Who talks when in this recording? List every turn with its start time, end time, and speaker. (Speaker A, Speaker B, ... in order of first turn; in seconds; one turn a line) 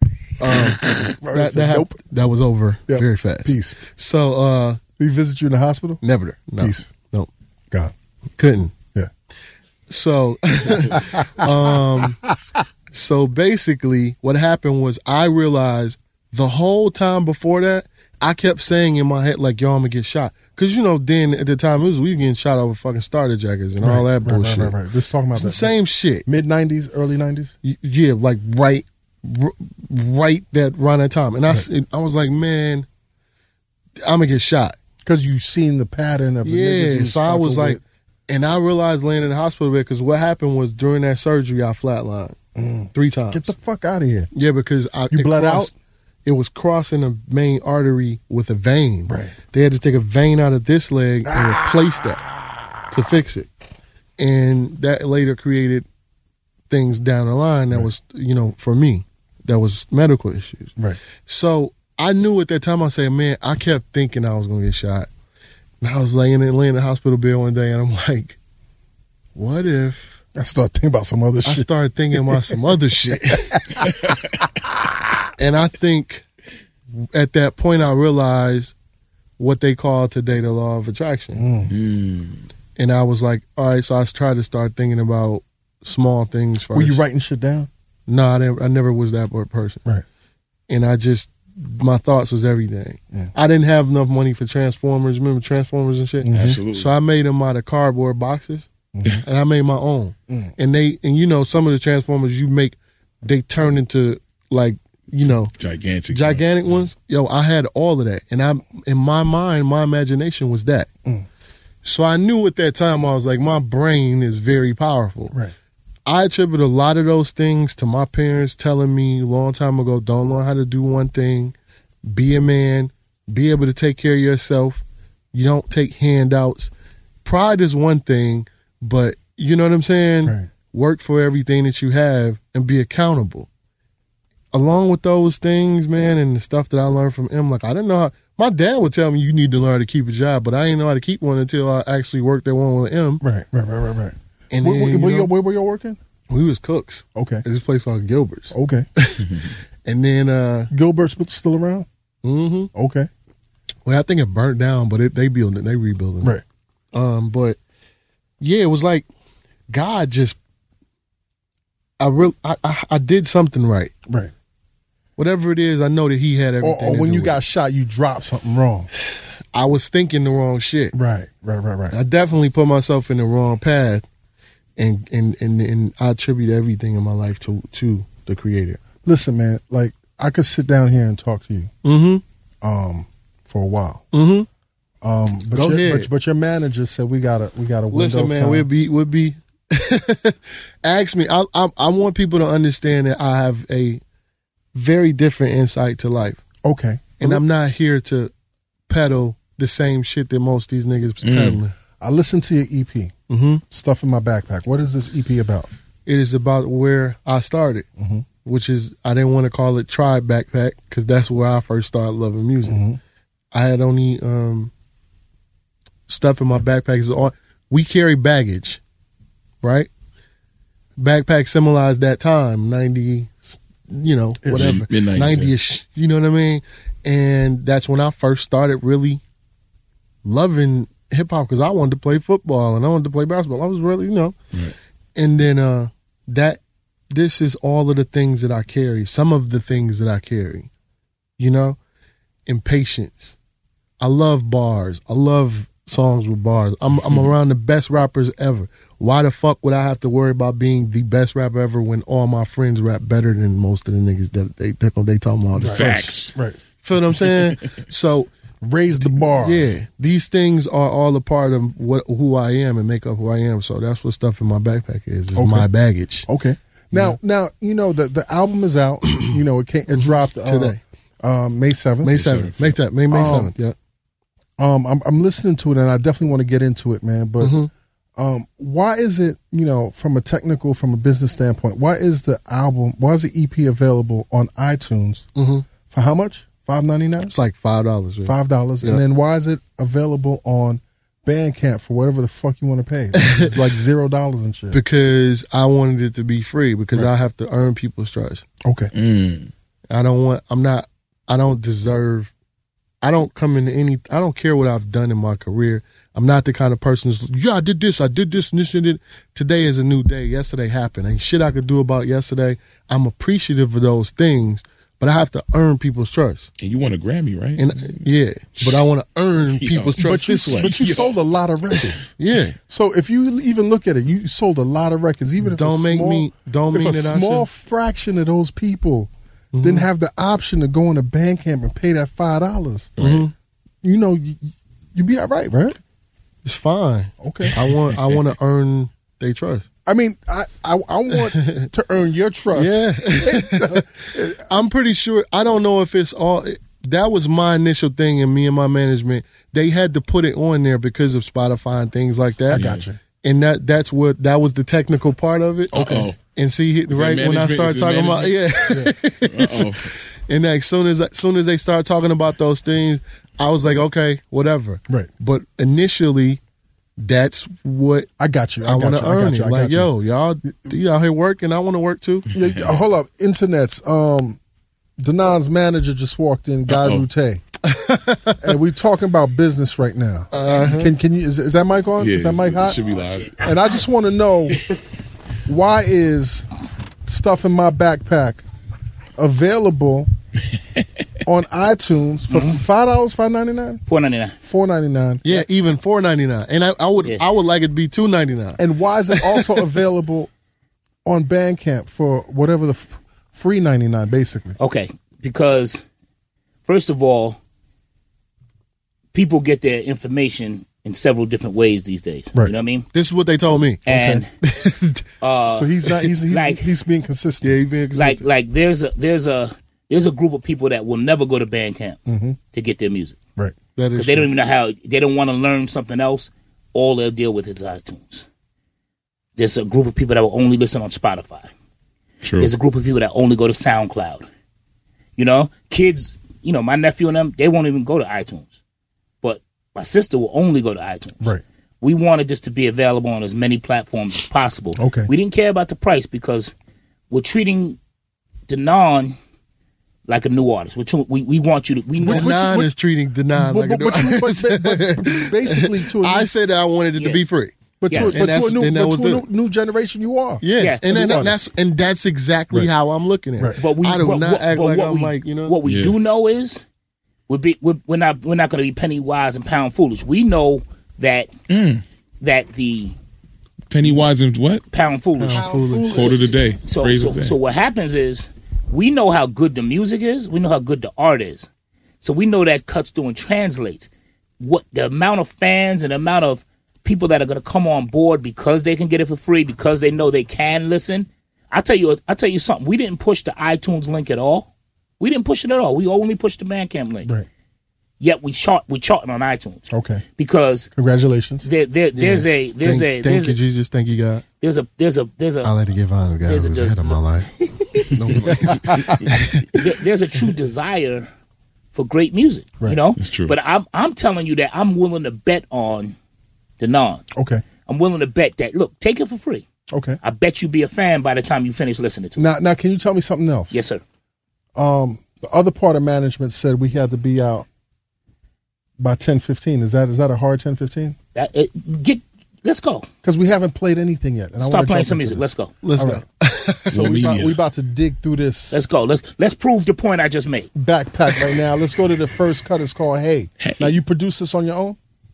Speaker A: 0.4-4.8
Speaker B: 1.2-1.9
Speaker B: 2.9-3.8
Speaker B: 5.0-6.0
Speaker A: 6.0-7.3
Speaker B: 6.6-6.9
Speaker A: 8.4-8.7
Speaker A: 9.9-12.2
Speaker B: 10.8-11.4
Speaker A: 12.9-24.8
Speaker B: 23.8-25.7
Speaker A: 25.4-26.3
Speaker B: 26.2-27.5
Speaker A: 27.6-32.9
Speaker A: 34.0-34.8
Speaker B: 35.0-37.8
Speaker A: 36.4-42.4
Speaker B: 42.5-44.3
Speaker A: 42.9-43.5
Speaker A: 44.3-45.7
Speaker B: 45.1-45.7
Speaker A: 46.2-52.2
Speaker B: 49.1-49.3
Speaker B: 51.3-51.6
Speaker A: 52.9-53.5
Speaker A: 54.2-55.8
Speaker A: 56.7-60.7
Speaker A: 61.3-65.1
Speaker A: 65.8-68.4
Speaker A: 69.3-70.2
Speaker B: 70.3-71.7
Speaker A: 71.5-73.8
Speaker B: 73.5-73.8
Speaker A: 75.4-76.2
Speaker A: 77.0-78.7
Speaker A: 79.4-81.4
Speaker B: 81.3-81.7
Speaker C: 81.7-82.4
Speaker A: 82.8-87.0
Speaker B: 86.7-87.7
Speaker A: 88.1-89.8
Speaker A: 90.7-98.7
Speaker B: 96.2-96.5
Speaker C: 96.3-96.9
Speaker B: 98.9-99.2
Speaker A: 99.2-105.5
Speaker C: 105.6-106.7
Speaker A: 106.1-110.9
Speaker A: 111.8-115.3
Speaker A: 116.0-121.5
Speaker A: 122.0-124.8
Speaker A: 125.3-126.7
Speaker A: 127.2-133.5
Speaker A: 134.5-143.2
Speaker B: 143.2-146.0
Speaker A: 144.5-145.3
Speaker A: 146.3-150.7
Speaker B: 147.2-147.4
Speaker B: 148.5-148.8
Speaker B: 150.7-151.9
Speaker A: 152.2-152.7
Speaker B: 152.7-153.1
Speaker A: 153.8-156.3
Speaker A: 156.9-157.6
Speaker A: 158.4-159.1
Speaker A: 159.7-160.4
Speaker A: 162.0-163.9
Speaker A: 165.2-167.4
Speaker B: 166.6-168.9
Speaker A: 169.5-170.9
Speaker B: 170.9-171.9
Speaker A: 171.9-174.0
Speaker A: 174.8-178.8
Speaker B: 179.0-181.7
Speaker A: 181.8-182.2
Speaker B: 182.6-184.0
Speaker A: 184.1-184.5
Speaker B: 185.0-188.7
Speaker A: 185.5-186.1
Speaker A: 187.9-194.0
Speaker A: 194.7-196.4
Speaker B: 196.6-197.4
Speaker A: 197.2-198.3
Speaker A: 198.9-201.7
Speaker C: 201.2-201.6
Speaker B: 202.0-203.1
Speaker A: 203.3-203.6
Speaker B: 203.7-205.7
Speaker A: 206.1-207.8
Speaker B: 208.0-208.2
Speaker A: 208.4-212.8
Speaker B: 212.7-213.0
Speaker A: 213.5-214.7
Speaker A: 216.1-218.8
Speaker A: 219.6-219.9
Speaker A: 221.0-229.2
Speaker B: 224.4-224.8
Speaker C: 224.5-225.6
Speaker A: 230.2-234.3
Speaker A: 235.2-236.6
Speaker A: 237.1-240.7
Speaker A: 241.4-241.8
Speaker A: 242.5-243.3
Speaker A: 244.0-256.1
Speaker B: 255.6-256.6
Speaker C: 255.6-256.3
Speaker A: 256.8-258.3
Speaker C: 257.2-257.6
Speaker B: 258.6-259.7
Speaker A: 259.4-266.3
Speaker B: 265.4-265.7
Speaker B: 266.3-272.1
Speaker A: 266.9-267.2
Speaker A: 269.9-270.8
Speaker A: 272.0-273.7
Speaker C: 272.1-272.8
Speaker B: 273.1-273.5
Speaker B: 274.6-277.6
Speaker A: 277.4-277.7
Speaker B: 278.2-285.3
Speaker A: 285.3-285.6
Speaker B: 285.9-287.3
Speaker A: 287.3-289.0
Speaker B: 288.2-294.8
Speaker A: 293.1-293.8
Speaker A: 294.7-298.4
Speaker B: 298.6-298.9
Speaker C: 298.9-299.5
Speaker A: 299.9-302.3
Speaker A: 303.0-316.5
Speaker C: 316.6-318.1
Speaker A: 317.6-321.0
Speaker C: 319.5-321.1
Speaker B: 320.0-322.1
Speaker A: 322.2-322.6
Speaker B: 322.7-329.1
Speaker A: 325.4-327.5
Speaker A: 329.5-329.9
Speaker B: 329.6-333.0
Speaker C: 333.0-333.3
Speaker A: 333.0-333.3
Speaker B: 333.8-335.8
Speaker A: 336.4-339.6
Speaker B: 337.2-337.5
Speaker C: 337.6-338.2
Speaker B: 339.9-344.4
Speaker A: 341.1-341.7
Speaker A: 342.5-352.6
Speaker C: 352.5-352.9
Speaker B: 352.5-353.0
Speaker A: 353.2-366.4
Speaker C: 355.7-356.2
Speaker C: 356.9-358.4
Speaker C: 359.2-359.9
Speaker A: 367.0-368.1
Speaker B: 368.2-369.9
Speaker A: 368.6-372.3
Speaker B: 372.3-374.4
Speaker C: 372.4-372.8
Speaker B: 375.0-377.4
Speaker C: 376.7-377.1
Speaker A: 377.6-378.5
Speaker B: 378.4-382.8
Speaker A: 380.3-380.9
Speaker C: 382.0-383.4
Speaker B: 383.4-384.6
Speaker B: 385.4-386.4
Speaker B: 387.1-388.4
Speaker B: 389.2-390.1
Speaker B: 391.2-393.8
Speaker D: 392.3-392.6
Speaker D: 393.9-394.3
Speaker B: 394.4-395.4
Speaker A: 395.2-398.6
Speaker B: 398.6-400.3
Speaker A: 399.1-399.5
Speaker B: 401.0-404.6
Speaker D: 404.6-405.8
Speaker D: 406.6-407.4
Speaker D: 409.1-412.9
Speaker A: 412.9-413.8
Speaker D: 413.9-414.3
Speaker B: 413.9-414.2
Speaker A: 414.4-415.0
Speaker D: 415.2-416.6
Speaker B: 415.5-417.6
Speaker A: 417.4-418.2
Speaker D: 417.9-422.0
Speaker B: 422.1-422.4
Speaker D: 422.5-423.2
Speaker A: 423.8-424.3
Speaker D: 424.0-428.2
Speaker D: 429.4-431.5
Speaker C: 432.2-432.5
Speaker D: 432.4-434.2
Speaker D: 435.2-438.5
Speaker D: 439.2-446.5
Speaker B: 444.8-445.1
Speaker D: 447.1-447.8
Speaker D: 448.5-449.1
Speaker D: 450.1-452.3
Speaker B: 452.0-452.7
Speaker A: 452.1-459.2
Speaker B: 453.3-456.3
Speaker D: 456.9-457.2
Speaker B: 457.8-461.4
Speaker D: 457.9-458.2
Speaker A: 460.4-465.6
Speaker D: 460.6-460.8
Speaker D: 463.6-466.6
Speaker C: 465.6-466.0
Speaker D: 467.3-471.3
Speaker C: 471.5-471.8
Speaker D: 472.2-472.9
Speaker C: 473.7-474.6
Speaker D: 474.7-481.5
Speaker A: 475.2-476.0
Speaker B: 475.3-476.2
Speaker C: 475.9-477.4
Speaker D: 482.0-483.9
Speaker D: 484.4-494.5
Speaker D: 495.0-497.1
Speaker D: 498.0-500.7
Speaker B: 499.7-500.0
Speaker B: 500.7-501.5
Speaker D: 501.4-503.4
Speaker A: 501.9-504.2
Speaker D: 504.4-505.5
Speaker A: 505.4-507.3
Speaker D: 506.3-507.9
Speaker A: 508.0-509.4
Speaker B: 508.3-508.9
Speaker D: 509.5-511.1
Speaker D: 511.7-515.9
Speaker C: 513.0-513.4
Speaker D: 516.6-517.0
Speaker B: 517.1-517.4
Speaker D: 517.6-519.4
Speaker B: 519.7-520.0
Speaker D: 520.0-522.3
Speaker B: 522.2-523.5
Speaker D: 523.5-523.8
Speaker B: 524.5-527.5
Speaker B: 528.8-530.9
Speaker D: 531.1-532.9
Speaker B: 533.0-536.0
Speaker D: 534.4-535.5
Speaker A: 535.6-536.8
Speaker C: 536.7-537.4
Speaker B: 536.7-538.6
Speaker D: 538.5-540.5
Speaker B: 540.5-544.8
Speaker C: 543.4-543.7